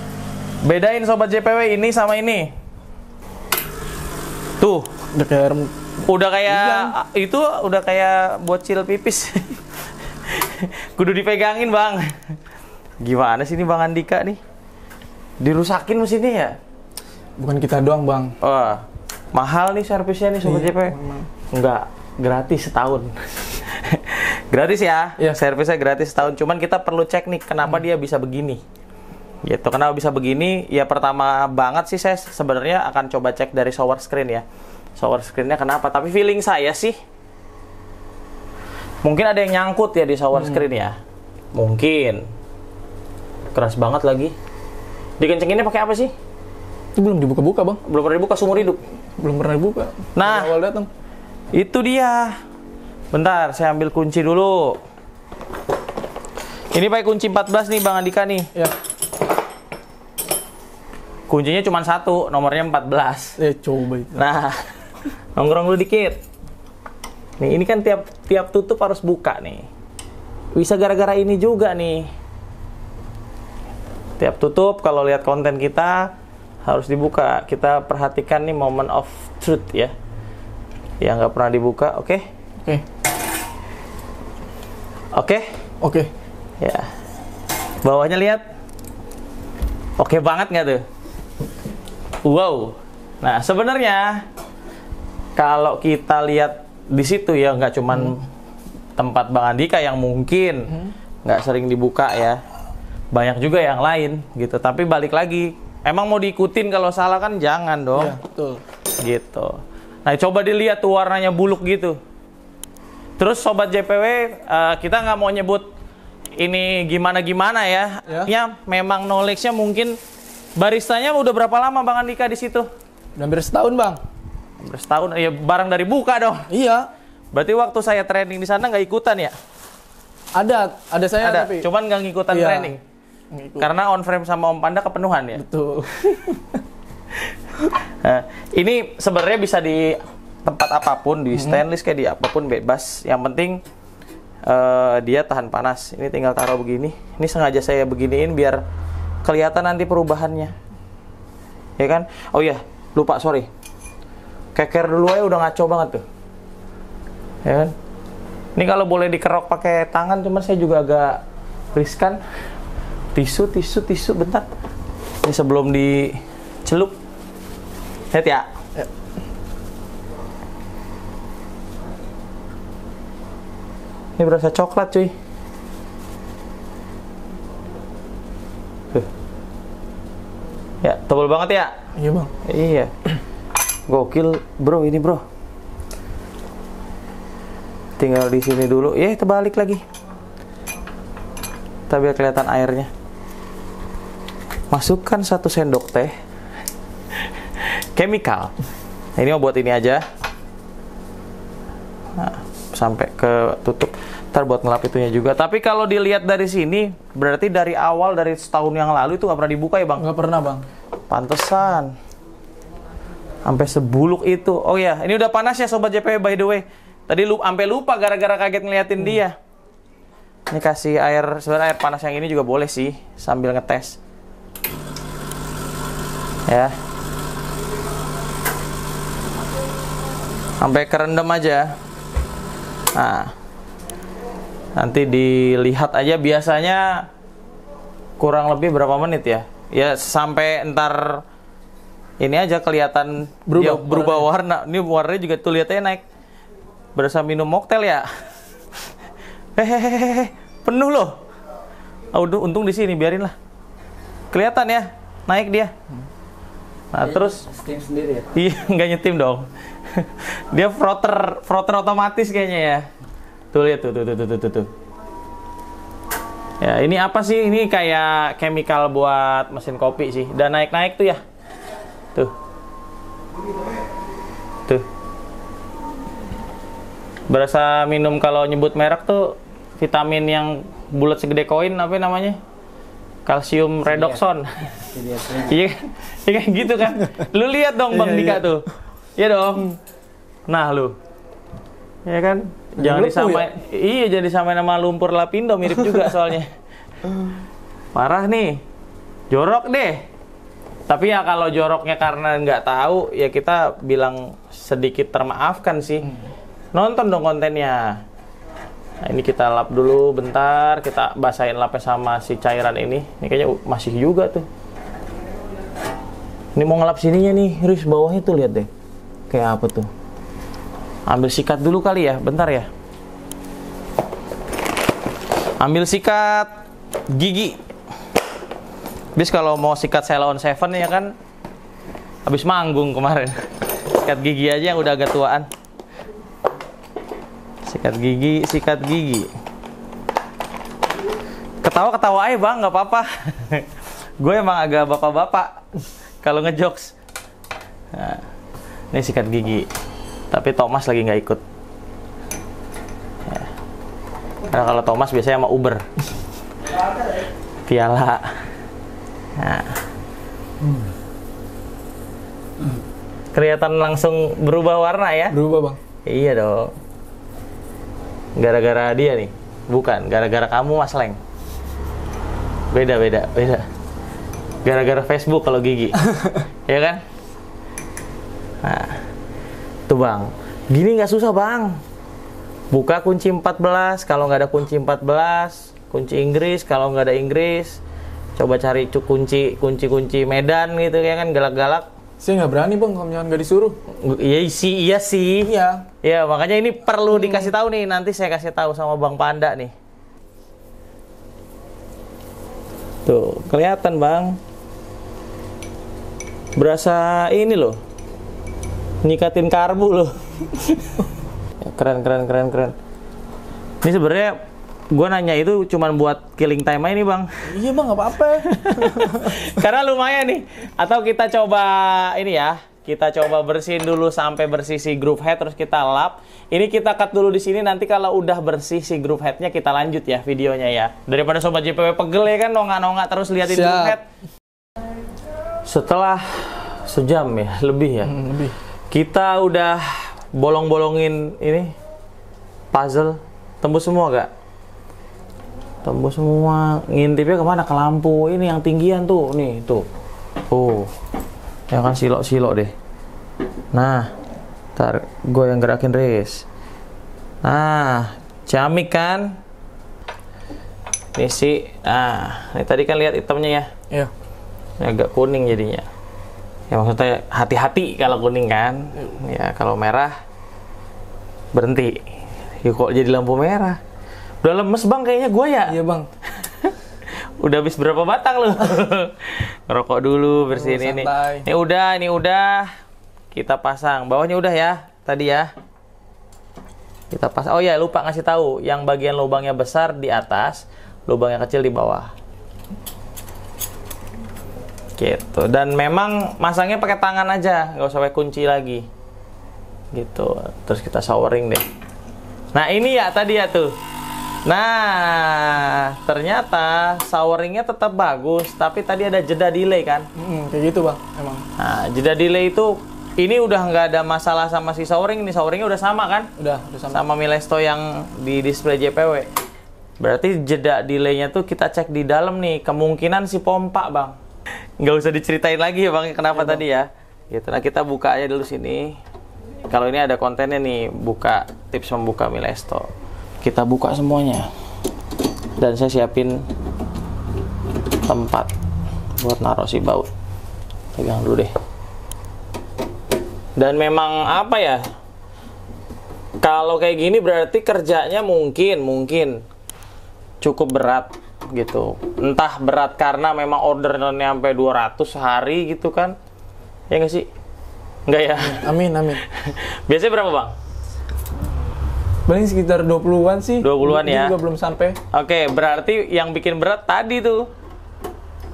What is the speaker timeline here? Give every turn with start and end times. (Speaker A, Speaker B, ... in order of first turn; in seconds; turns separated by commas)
Speaker A: 0.6-2.5, Speaker A: 4.6-4.9, Speaker B: 5.1-5.7, Speaker A: 6.0-12.4, Speaker B: 6.5-6.9, Speaker A: 13.0-14.4, Speaker A: 15.4-16.6, Speaker B: 17.4-18.4, Speaker A: 18.4-21.0, Speaker B: 20.4-21.3, Speaker A: 21.5-28.6, Speaker A: 29.4-34.5, Speaker A: 35.0-37.0, Speaker A: 39.0-41.0, Speaker A: 41.5-42.2, Speaker A: 43.5-44.3, Speaker A: 45.2-46.1, Speaker B: 47.0-47.8, Speaker A: 47.8-48.8, Speaker B: 49.2-50.9, Speaker A: 50.1-50.5, Speaker A: 51.5-52.4, Speaker A: 53.1-54.8, Speaker A: 56.7-58.5, Speaker A: 61.3-63.4, Speaker B: 63.4-64.2, Speaker A: 64.1-64.7, Speaker A: 65.4-66.2, Speaker A: 67.4-69.7, Speaker A: 70.5-72.1, Speaker A: 74.2-76.1, Speaker A: 76.7-79.9, Speaker A: 81.0-82.3, Speaker A: 85.1-85.5, Speaker B: 85.8-86.1, Speaker A: 86.6-86.9, Speaker A: 87.8-88.4, Speaker A: 90.0-90.8, Speaker A: 92.2-94.3, Speaker A: 95.4-98.3, Speaker A: 99.0-102.4, Speaker A: 103.1-108.2, Speaker B: 108.0-108.6, Speaker A: 109.0-112.0, Speaker A: 113.2-115.7, Speaker A: 116.4-120.0, Speaker A: 120.6-122.7, Speaker B: 123.2-124.0, Speaker A: 124.6-126.5, Speaker B: 126.5-126.9, Speaker A: 127.3-129.3, Speaker B: 130.3-131.7, Speaker A: 131.2-132.8, Speaker B: 132.3-132.7, Speaker B: 133.3-133.7, Speaker A: 133.6-135.4, Speaker B: 135.4-136.6, Speaker A: 137.2-143.6, Speaker B: 141.4-141.6, Speaker A: 144.4-148.6, Speaker A: 149.2-150.5, Speaker A: 151.8-153.5, Speaker A: 154.6-156.0, Speaker A: 157.4-157.7, Speaker A: 158.6-161.2, Speaker A: 161.7-162.2, Speaker A: 163.1-164.5, Speaker A: 165.2-167.0, Speaker A: 168.1-168.5, Speaker A: 174.2-175.1, Speaker A: 180.8-181.7, Speaker B: 182.0-182.3, Speaker A: 182.4-182.9, Speaker A: 183.9-185.2, Speaker A: 188.0-189.8, Speaker A: 191.9-192.9, Speaker A: 194.7-196.1, Speaker A: 197.2-198.5, Speaker A: 199.2-200.0, Speaker A: 202.2-210.1, Speaker B: 210.0-210.7, Speaker A: 211.1-211.9, Speaker A: 213.4-219.4, Speaker A: 220.5-224.0, Speaker A: 226.5-226.8, Speaker A: 230.6-231.8, Speaker A: 232.9-233.3, Speaker A: 234.8-237.1, Speaker A: 238.2-241.2, Speaker A: 242.2-246.0, Speaker B: 243.5-244.3, Speaker A: 247.0-248.1, Speaker A: 249.6-251.2, Speaker A: 252.1-253.3, Speaker A: 254.3-255.7, Speaker A: 256.9-257.5, Speaker C: 257.0-258.3, Speaker A: 258.3-262.9, Speaker A: 263.5-264.7, Speaker A: 266.6-271.2, Speaker A: 277.3-282.4, Speaker A: 283.3-289.8, Speaker C: 284.9-285.5, Speaker B: 287.9-288.4, Speaker A: 290.5-291.0, Speaker A: 292.1-296.5, Speaker B: 292.8-293.5, Speaker A: 297.9-298.6, Speaker A: 299.3-300.1, Speaker A: 300.9-306.2, Speaker A: 306.7-308.0, Speaker A: 309.0-314.5, Speaker A: 316.6-318.7, Speaker A: 319.3-319.9, Speaker A: 321.1-322.7, Speaker A: 325.6-326.5, Speaker A: 327.1-327.6, Speaker A: 329.2-331.2, Speaker A: 332.3-335.5, Speaker A: 337.7-339.3, Speaker A: 341.6-345.6, Speaker A: 346.2-346.9, Speaker A: 347.9-348.2, Speaker A: 348.9-349.7, Speaker A: 350.3-351.4, Speaker A: 353.3-353.5, Speaker A: 354.5-355.9, Speaker A: 357.7-358.4, Speaker A: 359.4-359.8, Speaker A: 363.3-365.4, Speaker B: 365.3-365.8, Speaker A: 366.1-366.8, Speaker A: 368.4-371.2, Speaker A: 372.7-373.7, Speaker A: 374.6-377.0, Speaker A: 378.6-379.0, Speaker A: 379.9-381.8, Speaker A: 382.7-387.8, Speaker A: 388.4-391.9, Speaker B: 392.2-393.8, Speaker A: 393.9-395.5, Speaker B: 395.4-395.9, Speaker A: 396.0-399.7, Speaker B: 397.2-397.5, Speaker A: 403.1-404.4, Speaker A: 406.6-407.8, Speaker A: 409.0-411.0, Speaker A: 411.6-412.8, Speaker A: 413.8-414.4, Speaker A: 414.9-417.5, Speaker B: 417.5-419.4, Speaker A: 418.4-434.0, Speaker B: 433.5-434.0, Speaker A: 435.7-438.2, Speaker B: 438.0-438.5, Speaker A: 438.9-441.8, Speaker A: 442.7-444.3, Speaker A: 445.8-449.9, Speaker A: 450.5-450.9, Speaker A: 451.7-452.7, Speaker A: 453.7-454.1, Speaker A: 454.8-456.4, Speaker A: 457.4-459.4, Speaker A: 461.2-463.7, Speaker A: 464.8-465.9, Speaker A: 466.7-470.1, Speaker A: 471.5-472.1, Speaker A: 472.6-473.8, Speaker A: 474.4-475.8, Speaker B: 475.7-476.1, Speaker A: 476.4-476.7, Speaker A: 477.4-482.7, Speaker B: 480.5-481.5, Speaker A: 483.3-485.5, Speaker A: 487.1-492.1, Speaker A: 495.0-498.8, Speaker A: 499.9-501.6, Speaker A: 502.5-503.7, Speaker A: 504.5-510.1, Speaker B: 510.2-511.4, Speaker A: 511.6-516.3, Speaker B: 516.4-517.0, Speaker A: 516.9-519.3, Speaker A: 520.0-524.2, Speaker A: 524.8-529.0, Speaker B: 526.3-526.6, Speaker A: 529.7-532.9, Speaker A: 533.4-534.5, Speaker A: 535.6-536.5, Speaker A: 538.0-538.5, Speaker A: 539.2-540.1, Speaker A: 541.0-541.5, Speaker A: 543.6-544.8, Speaker A: 546.4-549.4, Speaker A: 550.4-556.2, Speaker A: 556.9-557.3, Speaker A: 558.1-560.5, Speaker B: 558.4-559.2, Speaker B: 562.3-565.0, Speaker A: 563.6-564.4, Speaker A: 565.1-567.5